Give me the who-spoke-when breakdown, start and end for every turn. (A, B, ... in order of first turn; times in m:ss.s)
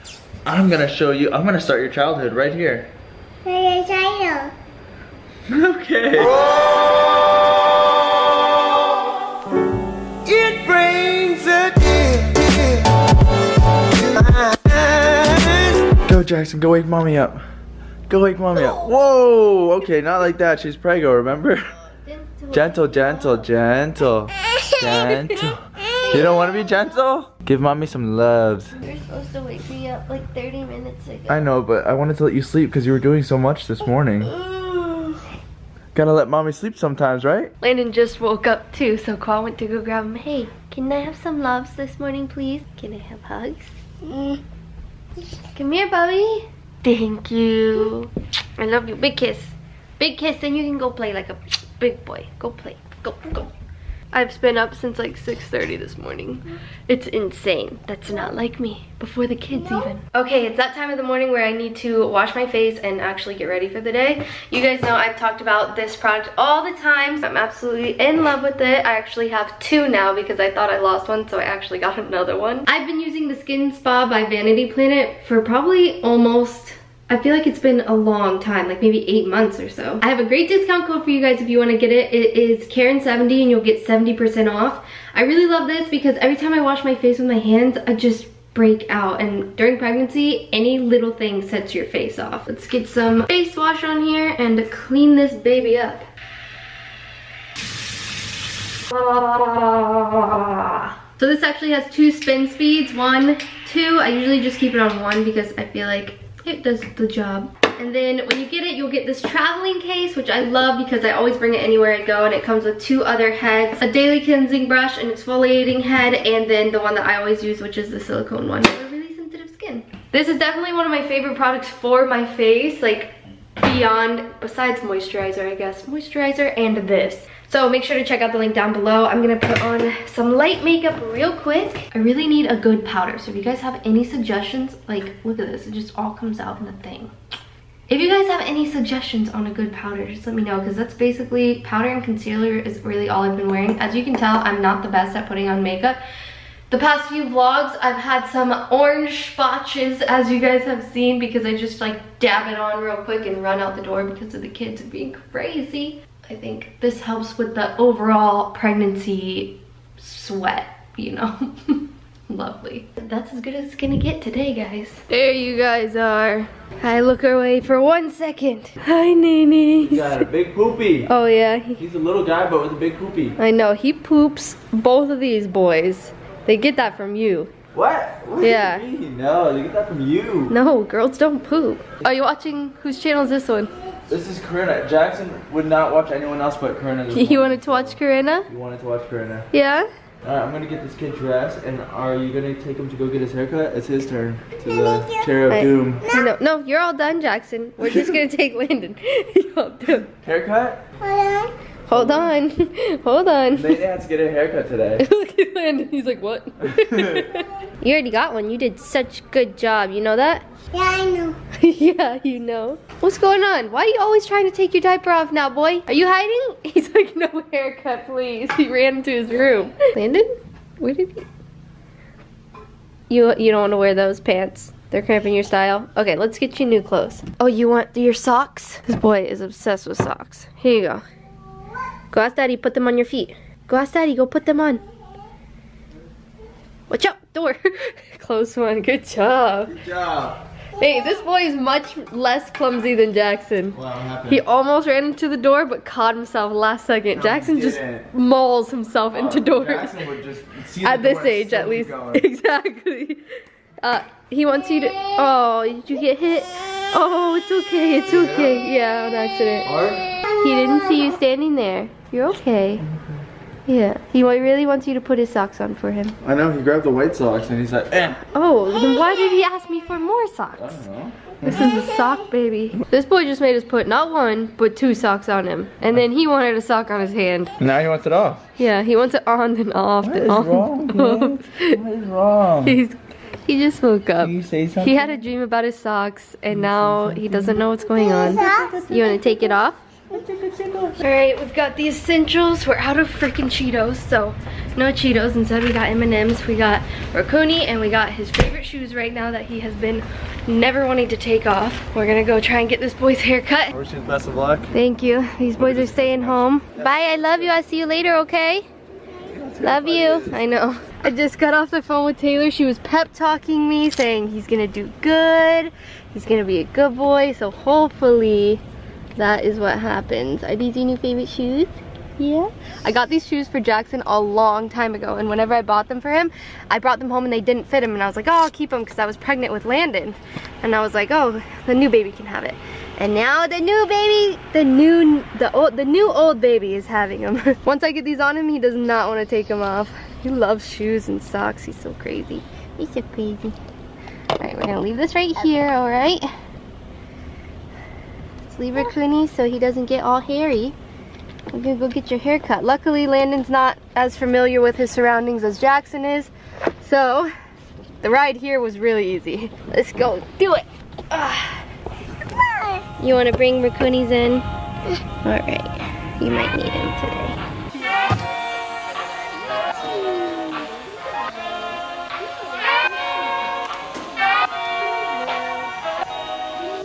0:00.4-0:02.9 A
0:03.4-0:04.5 B
0:05.5-0:06.4 A
0:10.2-0:12.8 A
0:14.1-0:17.4 A
0:18.1-0:21.6 A
0:22.0-0:23.5 C
0:22.5-0:28.8 A
0:25.1-0:25.4 C
0:25.9-0:26.9 C
0:28.8-0:31.5 C
0:31.3-0:34.3 A
0:34.2-0:35.2 C
0:35.9-0:37.5 A
0:37.6-0:44.3 C
0:45.6-0:53.5 C
0:54.1-1:36.1 C
1:38.9-2:17.1 C
2:17.9-2:26.0 C
2:26.7-2:50.3 C
2:49.8-2:51.1 A
2:51.1-2:51.8 C
2:51.8-2:53.4 A
2:53.4-2:57.5 C
2:57.7-3:00.6 A
2:58.4-2:58.8 C
3:00.5-3:03.7 C
3:04.1-3:08.0 A
3:07.1-3:08.5 C
3:08.5-3:09.5 A
3:09.5-3:09.9 C
3:10.2-3:16.1 A
3:14.7-3:15.3 B
3:15.5-3:20.1 C
3:17.8-3:18.2 A
3:20.1-3:20.8 A
3:21.0-3:21.5 B
3:21.9-3:23.8 C
3:21.9-3:22.3 A
3:23.6-3:25.0 A
3:25.0-3:30.5 C
3:26.6-3:27.3 A
3:30.7-3:31.4 B
3:31.6-3:40.3 C
3:40.8-3:41.3 C
3:43.1-3:51.0 C
3:52.1-3:54.8 C
3:56.9-3:59.7 C
3:59.7-4:00.4 A
4:00.8-4:03.8 C
4:03.7-4:04.4 A
4:04.3-4:10.0 C
4:07.2-4:08.1 A
4:09.1-4:12.3 A
4:10.8-4:13.2 C
4:13.8-4:22.8 C
4:18.1-4:18.7 A
4:19.6-4:20.1 A
4:22.8-4:23.2 A
4:23.7-4:26.2 C
4:26.2-4:28.2 A
4:28.3-4:30.8 C
4:30.6-4:31.7 A
4:31.4-4:37.6 C
4:37.6-4:38.4 A
4:38.6-4:41.8 C
4:40.0-4:42.8 A
4:42.6-4:49.8 C
4:44.2-4:45.2 A
4:46.5-4:47.7 A
4:48.0-4:48.9 B
4:50.1-4:51.0 A
4:51.0-5:03.8 C
5:03.7-5:04.7 A
5:04.7-5:08.6 C
5:05.6-5:07.6 A
5:09.3-5:10.4 A
5:09.6-5:18.6 C
5:19.2-5:43.6 C
5:44.4-5:46.2 C
5:48.5-5:50.8 C
5:51.5-5:57.3 C
5:58.0-6:01.6 C
6:02.4-6:02.8 B
6:03.0-6:04.5 C
6:05.2-6:07.4 C
6:09.5-6:10.6 C
6:09.9-6:10.4 B
6:12.2-6:13.1 C
6:15.0-6:15.7 C